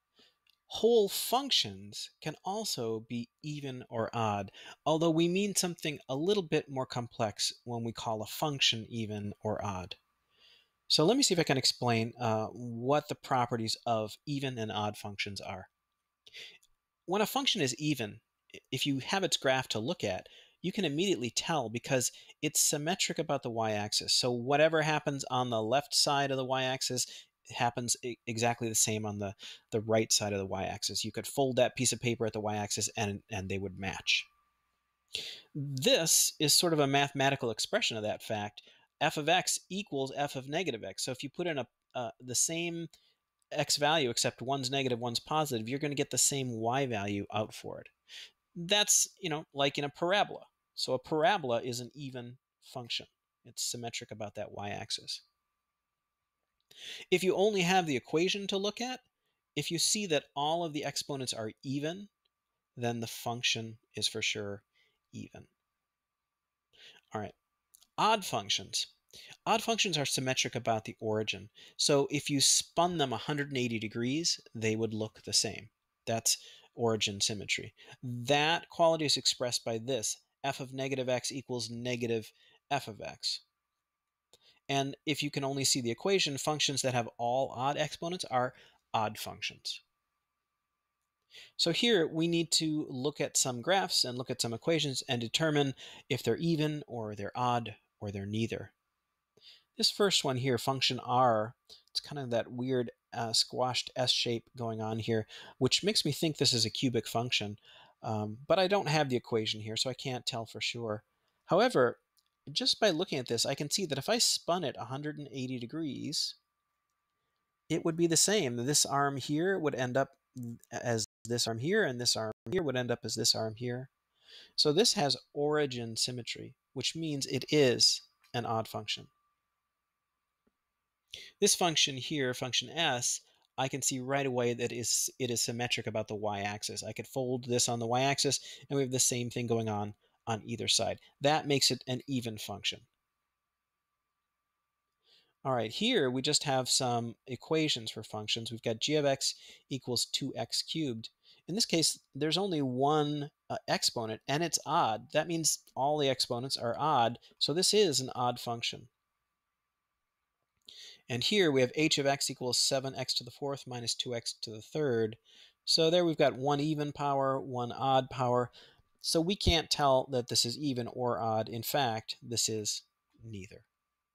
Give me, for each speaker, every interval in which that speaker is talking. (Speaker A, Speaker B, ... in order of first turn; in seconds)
Speaker A: 0.7-10.0, 10.9-15.7, 17.1-34.3, 35.5-42.9, 43.5-47.9, 48.5-55.2, 57.1-59.0, 59.5-62.1, 62.8-65.5, 68.0-68.9, 69.5-83.4, 84.7-89.8, 91.6-98.7, 99.8-116.4, 117.7-123.9, 124.6-129.1, 131.4-142.9, 145.4-158.9, 161.1-168.5, 169.0-173.7